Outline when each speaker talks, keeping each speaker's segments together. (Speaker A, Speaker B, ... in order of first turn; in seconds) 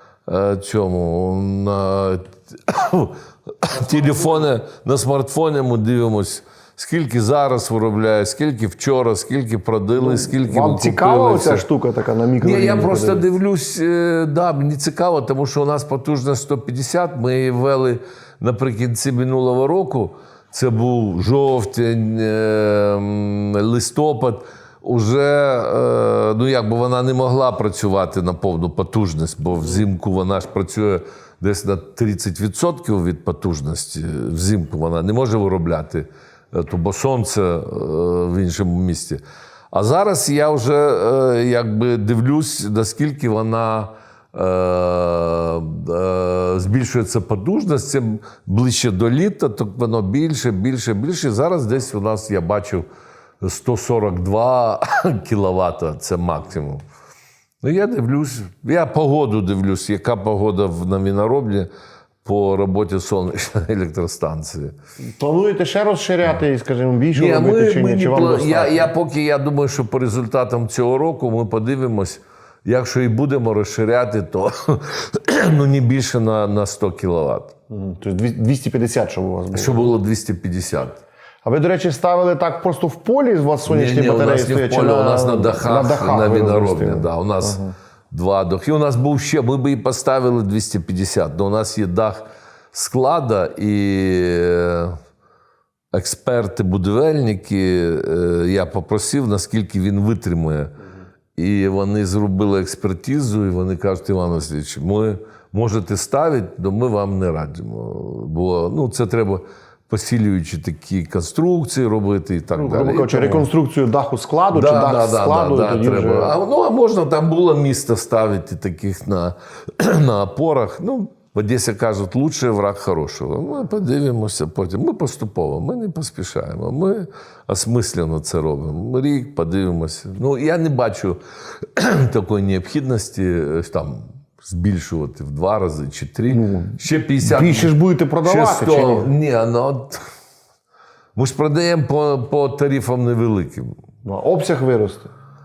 Speaker A: 0.3-11.7, 12.4-39.2, 39.7-52.9, 53.4-56.8, 57.6-61.7, 62.2-64.7, 67.1-77.5, 79.5-81.0, 83.7-95.0, 95.9-100.7, 101.3-113.5, 114.5-137.7, 138.2-140.0, 141.2-143.7
Speaker B: 10.0-13.3, 65.2-68.9, 77.7-79.9, 81.4-87.7, 112.5-116.3, 136.3-139.1, 144.0-145.1